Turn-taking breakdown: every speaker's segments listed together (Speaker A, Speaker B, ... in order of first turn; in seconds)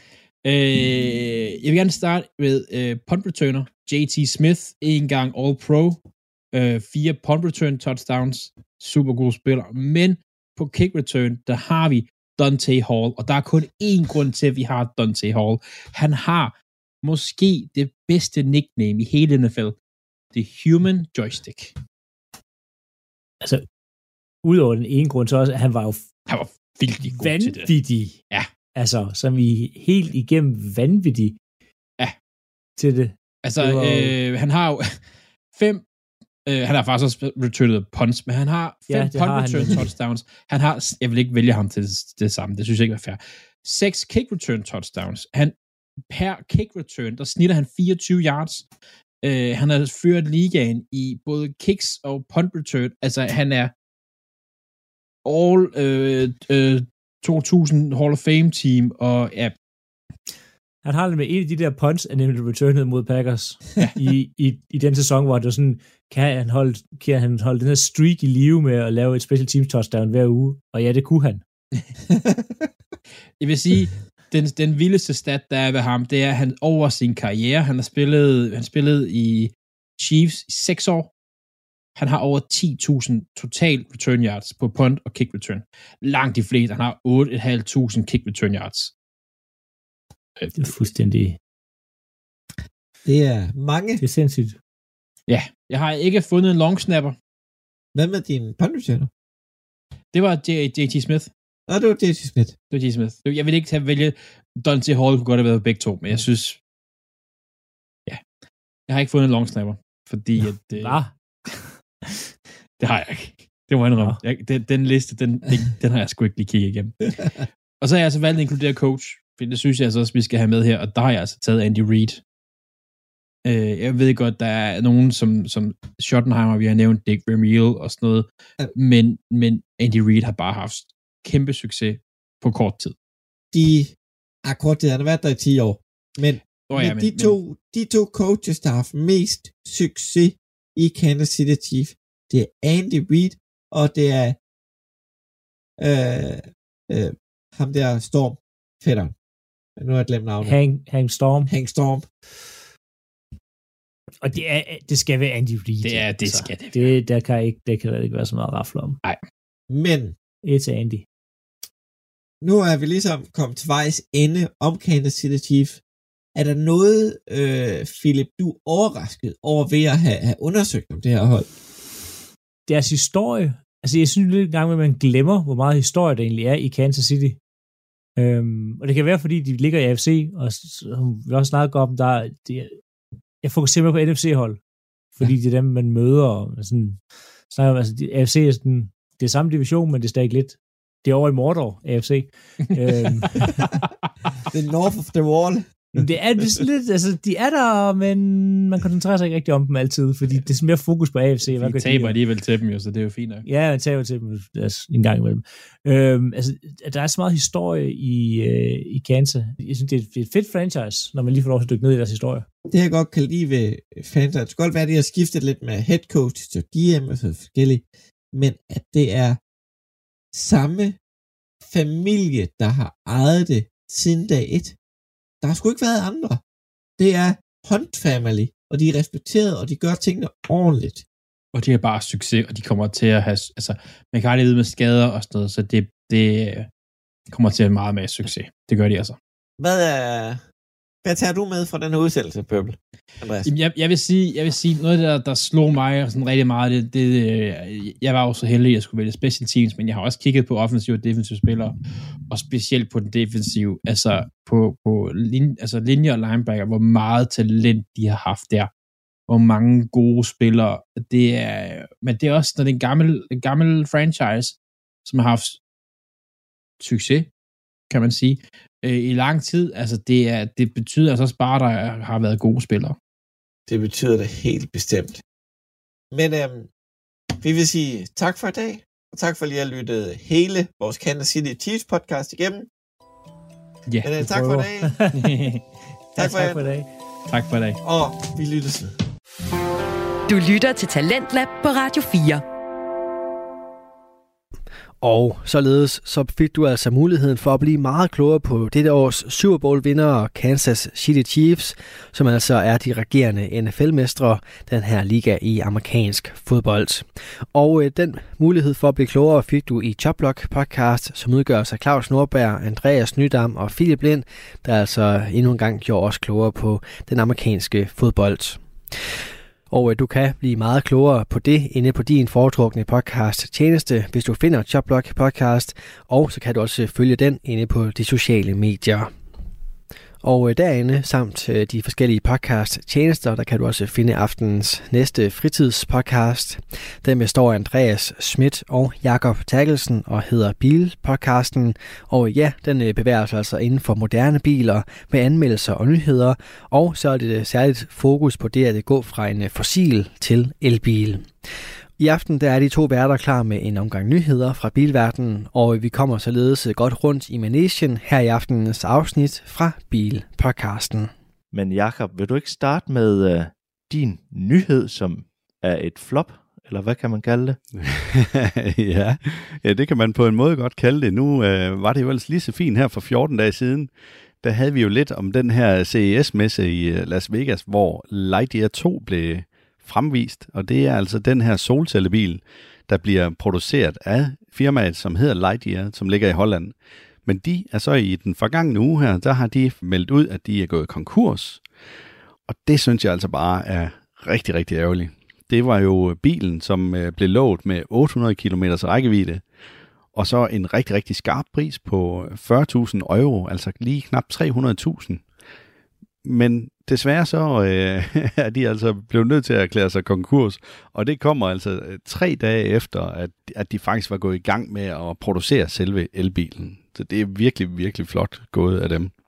Speaker A: 0.5-6.0, 6.5-19.8, 20.3-21.7, 26.3-27.7, 33.4-35.0, 35.5-35.8, 36.5-45.5, 46.1-48.7, 49.2-53.7, 55.2-59.5, 73.4-81.1, 82.0-88.9, 95.3-97.2, 100.1-101.3, 102.7-106.6, 108.9-111.0, 112.8-117.2, 117.8-122.2, 123.5-132.9, 136.7-137.4, 155.8-156.9, 201.6-203.5, 231.5-236.7, 237.3-239.2, 243.4-251.8, 252.3-258.7, 259.3-265.6, 266.8-267.3, 267.9-273.0, 285.1-285.6, 287.3-287.8
Speaker B: 24.4-26.1, 27.1-28.2, 28.8-31.4, 32.8-34.2, 38.9-39.9, 60.8-71.4, 90.6-91.4, 94.0-94.6, 110.8-111.1, 150.4-151.5, 154.2-159.0, 160.4-161.1, 172.7-177.4, 178.2-182.8, 183.4-184.6, 185.2-187.0, 187.5-193.7, 195.9-202.2, 203.4-212.5, 284.2-285.3, 286.2-286.9
Speaker C: 93.0-94.0, 98.0-99.1, 101.7-102.5, 133.5-144.4, 145.8-149.1, 149.8-150.6, 151.5-152.1, 159.7-160.2, 162.4-165.8, 166.3-171.5, 194.5-195.8, 212.7-219.4, 220.3-221.0, 221.7-224.8, 225.4-226.4, 227.0-231.0, 239.6-240.4, 241.0-243.5, 273.7-275.2, 276.1-276.7, 277.4-282.7, 284.0-285.0, 286.2-286.6, 287.8-288.9
Speaker D: 290.3-292.4
Speaker E: 295.0-318.6, 319.7-329.1, 330.2-351.3, 352.0-361.1
Speaker F: 361.5-367.6
Speaker G: 367.8-391.6, 392.5-399.4, 400.1-405.2, 406.2-419.1